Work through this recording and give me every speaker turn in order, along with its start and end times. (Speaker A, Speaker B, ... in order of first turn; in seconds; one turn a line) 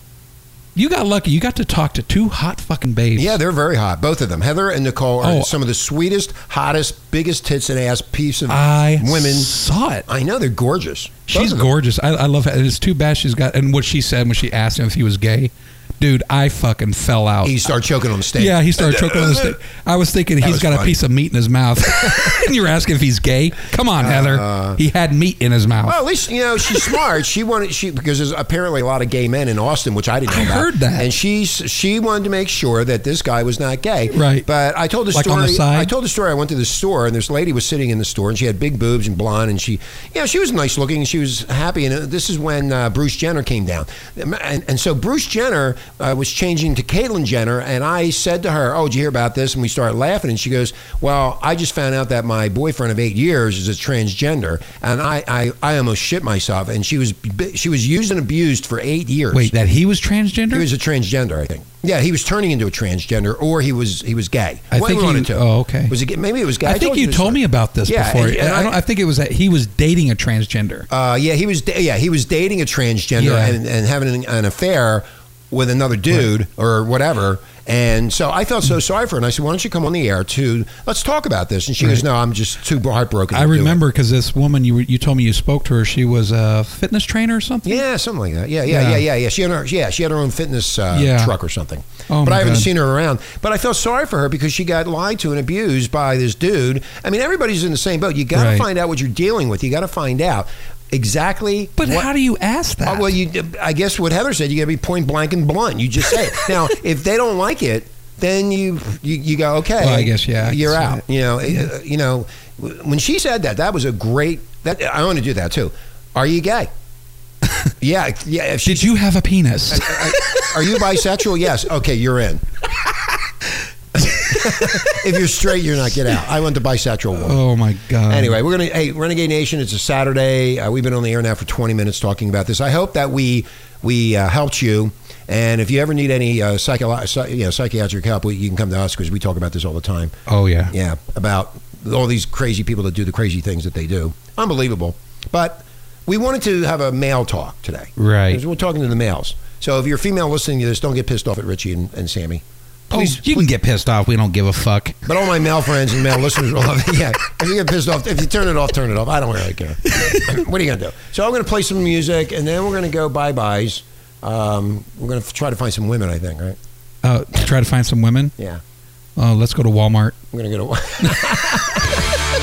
Speaker A: 0.8-3.4
Speaker B: 3.1-9.5
Speaker A: 5.2-5.5
Speaker A: 8.5-10.0
Speaker B: 10.1-11.7
Speaker A: 11.3-17.7
Speaker B: 17.4-19.5
Speaker A: 18.3-26.0
Speaker B: 20.4-21.0
Speaker B: 24.0-24.8
Speaker B: 25.8-59.5
Speaker A: 26.7-27.0
Speaker A: 30.2-31.1
Speaker A: 34.1-34.5
Speaker A: 35.1-35.9
Speaker A: 59.3-60.7
Speaker B: 60.5-68.8
Speaker A: 64.7-66.0
Speaker A: 66.6-70.9
Speaker B: 70.9-83.8
Speaker A: 73.2-73.6
Speaker A: 83.3-87.8
Speaker B: 87.6-102.1
Speaker A: 88.7-89.0
Speaker A: 90.9-91.3
Speaker A: 92.1-92.7
Speaker A: 98.3-98.7
Speaker A: 101.8-103.1
Speaker B: 102.8-116.7
Speaker A: 109.8-111.0
Speaker B: 117.8-118.9
Speaker A: 118.6-120.5
Speaker B: 119.7-122.4
Speaker B: 124.0-127.4
Speaker A: 127.2-128.3
Speaker B: 128.1-140.1
Speaker A: 140.3-140.7
Speaker B: 140.7-153.4
Speaker A: 148.0-148.4
Speaker A: 152.9-155.0
Speaker B: 155.1-166.6
Speaker A: 159.9-160.2
Speaker A: 167.0-168.3
Speaker A: 169.2-170.2
Speaker B: 170.3-172.0